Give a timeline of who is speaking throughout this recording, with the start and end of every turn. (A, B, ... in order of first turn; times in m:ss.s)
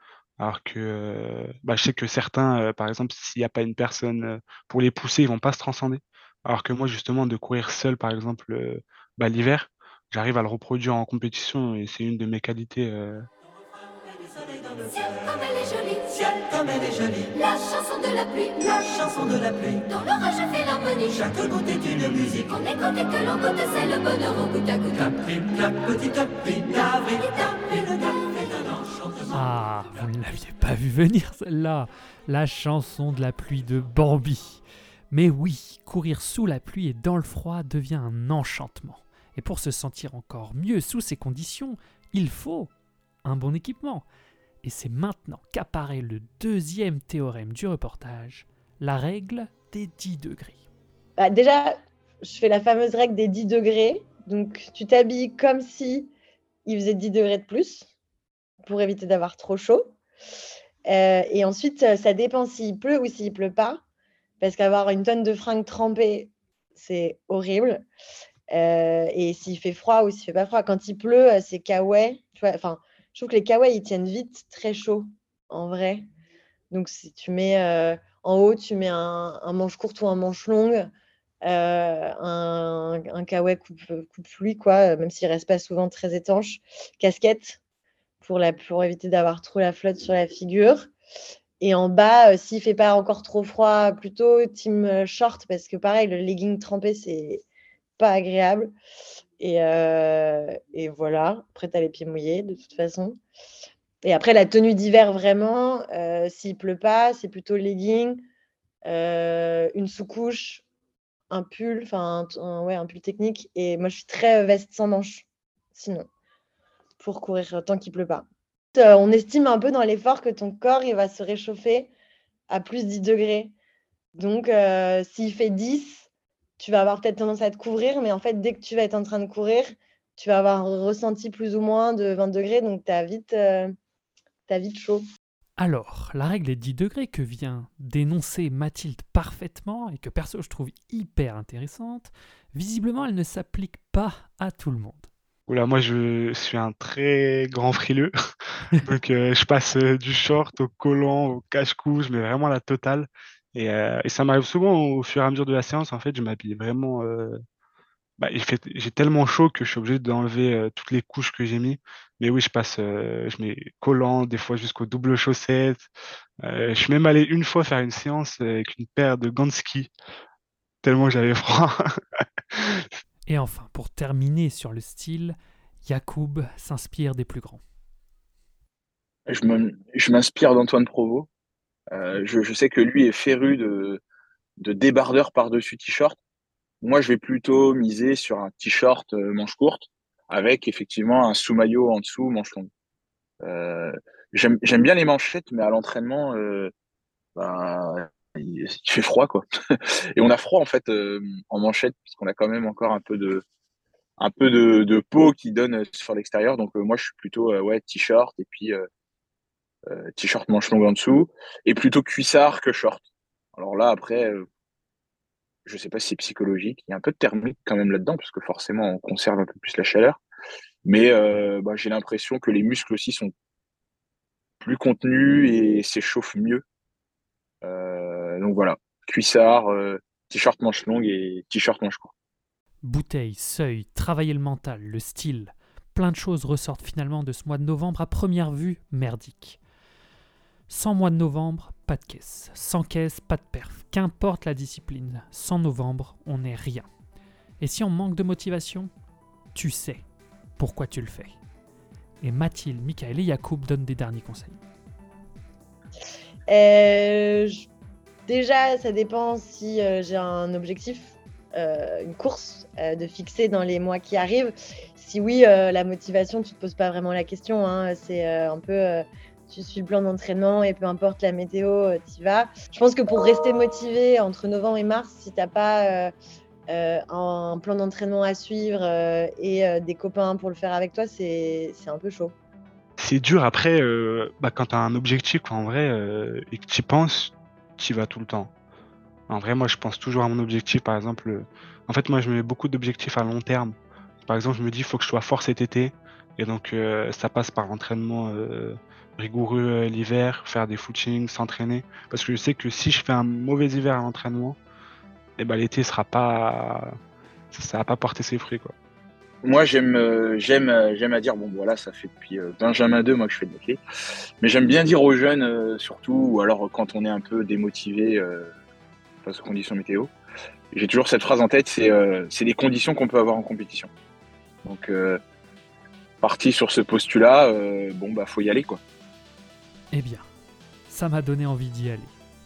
0:00.4-0:13.2 A
0:15.0-0:16.4 B
0:17.2-0:25.2 B
0:27.2-0:27.7 B
0:29.3-0:42.7 C
0:43.2-0:44.0 C
0:44.6-0:50.6 C
0:51.2-0:56.1 D
0:56.6-0:57.9 D
0:58.6-0:59.9 D
1:00.9-1:03.8 D
1:04.4-1:07.8 D
1:08.5-1:16.0 D
1:16.7-1:20.9 D
1:21.4-1:27.6 D
1:28.2-1:30.9 D
1:31.6-1:37.4 D
1:38.0-1:38.7 D
1:39.4-1:43.2 D
1:44.0-1:48.2 D
1:48.8-1:50.6 D
1:51.3-1:56.0 D
1:57.0-2:01.9 D
2:02.5-2:03.5 D
2:04.1-2:06.1 D
2:06.6-2:09.7 D
2:10.2-2:13.7 D
2:14.5-2:15.0 D
2:15.6-2:25.1 C
2:25.5-2:28.1 A
2:28.8-2:37.4 A
2:38.2-2:45.9 A
2:46.4-2:49.9 A
2:50.8-2:51.9 A
2:52.6-2:52.8 A
2:53.3-2:57.6 C
2:59.3-3:01.3 E
3:01.9-3:04.0 E
3:04.6-3:06.2 E
3:06.8-3:12.7 E
3:13.4-3:16.7 E
3:17.4-3:23.4 E
3:24.2-3:28.8 E
3:29.9-3:33.0 E
3:33.6-3:34.4 E
3:35.6-3:40.2 E
3:40.8-3:43.3 E
3:44.6-3:46.6 E
3:47.6-3:52.1 E
3:52.8-3:59.6 C
4:00.7-4:06.9 C
4:07.6-4:08.9 C
4:09.5-4:10.0 C
4:10.6-4:11.4 C
4:12.2-4:14.6 C
4:16.5-4:17.7 D
4:18.3-4:36.1 D
4:36.7-4:42.3 D
4:43.0-4:48.5 A
4:49.3-5:04.6 A
5:05.4-5:06.9 A
5:07.5-5:08.7 A
5:09.4-5:13.8 E
5:14.4-5:18.5 E
5:19.2-5:20.1 E
5:20.7-5:23.9 E
5:24.6-5:25.2 E
5:26.2-5:28.8 E
5:29.9-5:30.3 C
5:30.9-5:32.2 C